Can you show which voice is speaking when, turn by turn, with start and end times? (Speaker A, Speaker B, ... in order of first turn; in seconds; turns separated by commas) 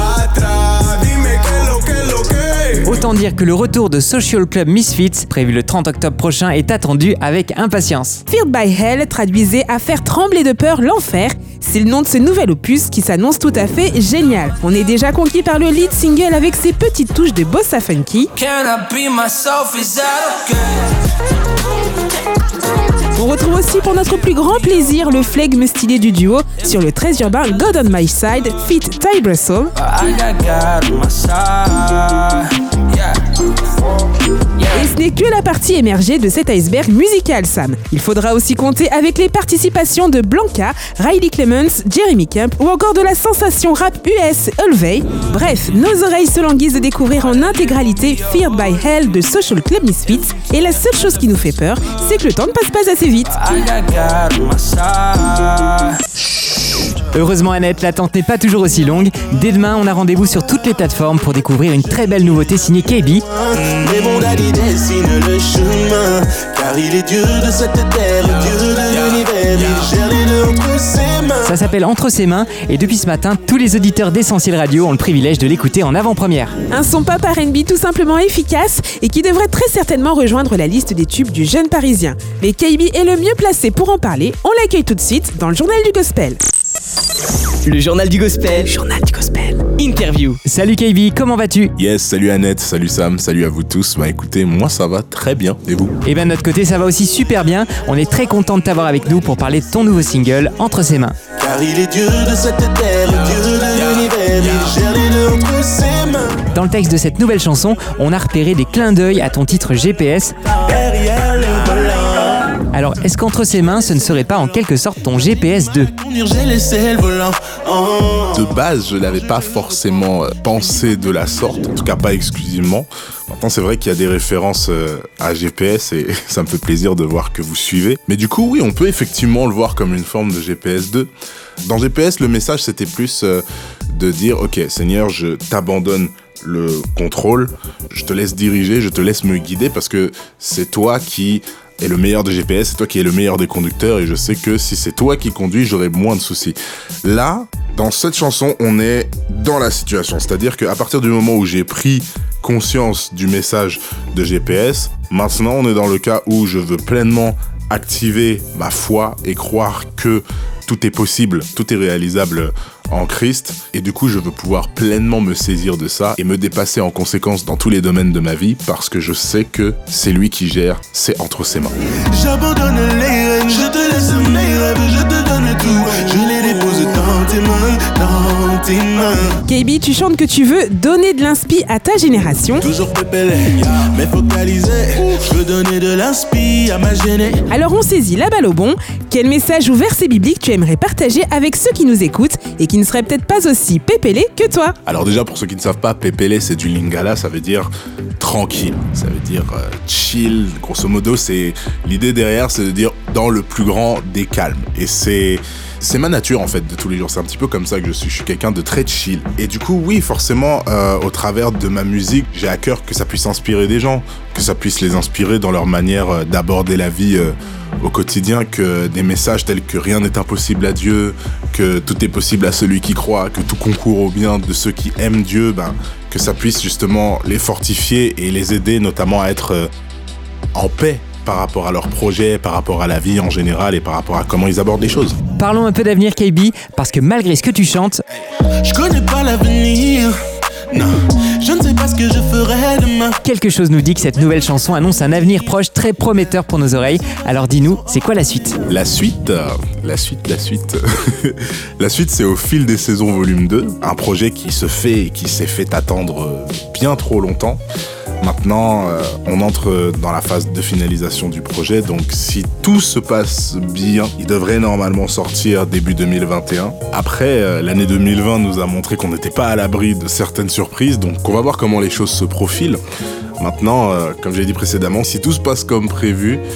Speaker A: 0.2-2.6, Speaker B: 2.8-8.2, Speaker C: 8.3-18.3, Speaker D: 18.4-20.6, Speaker C: 23.1-29.7, Speaker D: 29.9-32.4, Speaker C: 34.8-53.3, Speaker D: 53.5-55.7, Speaker B: 57.1-63.2, Speaker A: 63.5-71.5, Speaker B: 71.4-76.5, Speaker C: 76.7-86.4, Speaker E: 87.6-90.4, Speaker B: 90.5-91.7, Speaker F: 91.8-96.0, Speaker B: 96.0-101.1, Speaker A: 101.4-106.3, Speaker B: 106.5-110.3, Speaker A: 110.6-112.4, Speaker B: 112.7-115.9, Speaker A: 116.0-118.4, Speaker F: 118.3-131.1, Speaker F: 131.7-171.8, Speaker A: 172.1-179.4, Speaker C: 179.5-182.6, Speaker A: 182.6-187.4, Speaker C: 187.5-194.7, Speaker F: 194.8-197.7, Speaker F: 198.2-229.7, Speaker F: 230.5-235.2, Speaker B: 235.3-238.0, Speaker A: 238.6-240.2, Speaker A: 240.7-243.2, Speaker B: 243.2-248.6, Speaker F: 248.7-257.6, Speaker F: 258.2-272.8, Speaker F: 273.4-276.4